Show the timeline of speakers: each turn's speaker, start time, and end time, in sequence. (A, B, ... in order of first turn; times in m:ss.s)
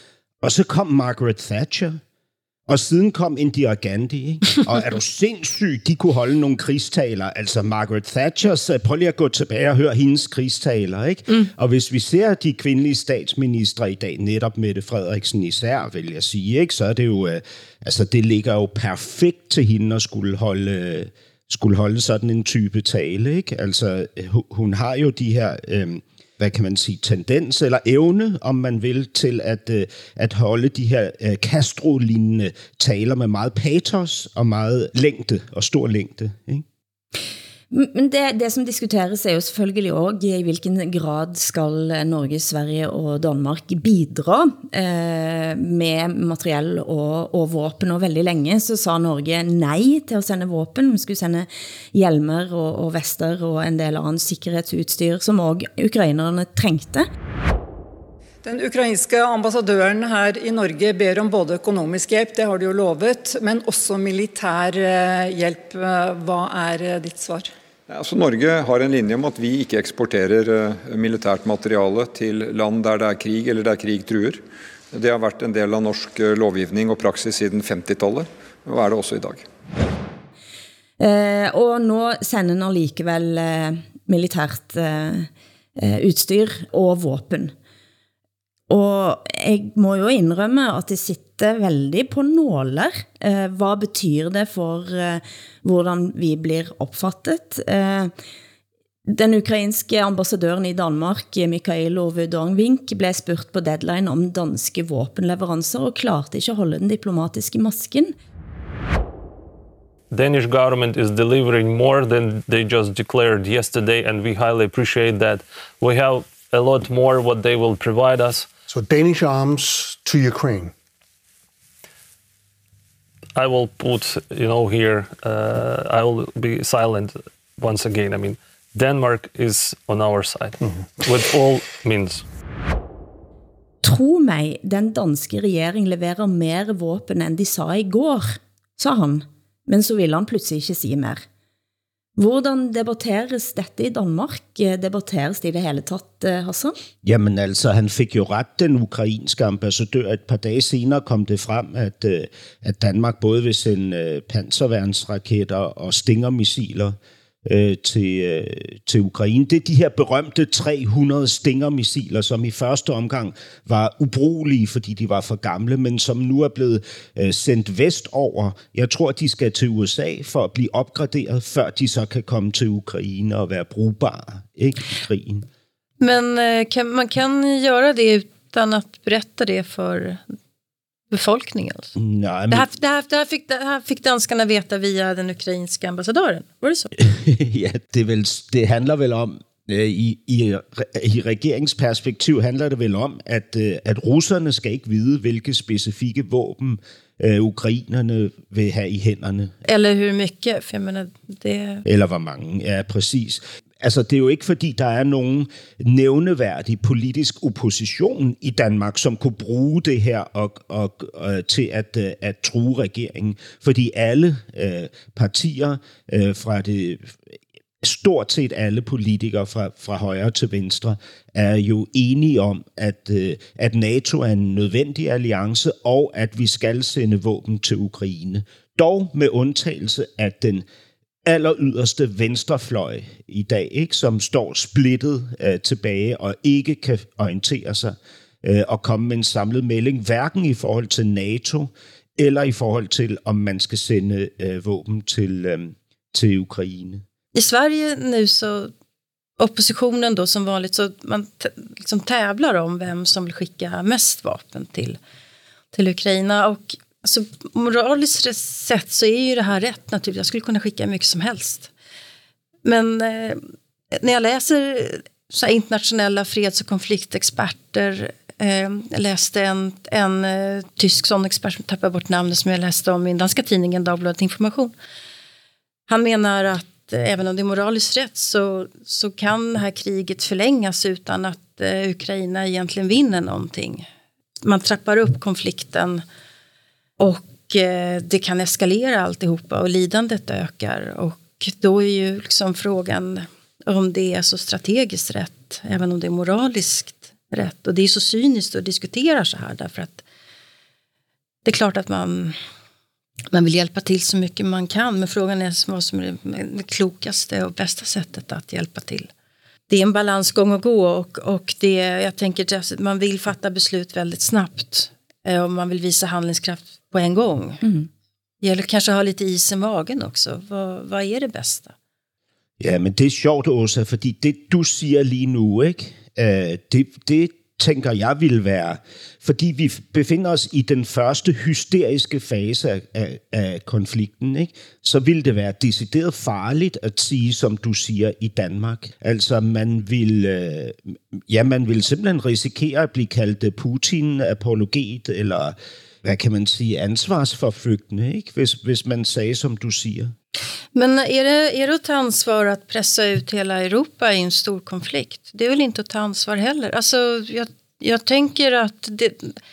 0:00.4-0:02.0 A
0:02.7-0:36.6 A
0:37.7-0:57.1 B
0:58.4-1:07.5 C
1:07.9-1:19.4 D
1:21.0-1:27.5 B
1:28.7-1:38.1 B
1:39.1-1:48.2 B
1:50.1-1:58.5 E
1:58.7-2:00.7 F
2:03.4-2:12.2 E
2:13.8-2:21.2 B
2:22.2-2:26.8 B
2:27.0-2:55.5 A
2:56.0-3:00.2 G
3:01.1-3:02.0 G
3:02.0-3:02.7 A
3:02.5-3:06.9 G
3:07.0-3:19.6 A
3:19.6-3:21.8 G
3:21.8-3:37.3 A
3:37.8-3:50.7 A
3:51.2-4:07.0 A
4:07.3-4:08.7 G
4:09.4-4:15.0 G
4:15.7-4:21.7 G
4:22.6-4:23.4 G
4:23.9-4:34.7 G
4:35.9-4:43.9 G
4:44.4-4:46.0 G
4:47.0-5:00.0 G
5:01.4-5:02.4 G
5:03.3-5:09.1 G
5:09.7-5:17.6 G
5:18.4-5:21.7 G
5:22.6-5:50.1 A
5:50.8-5:59.4 G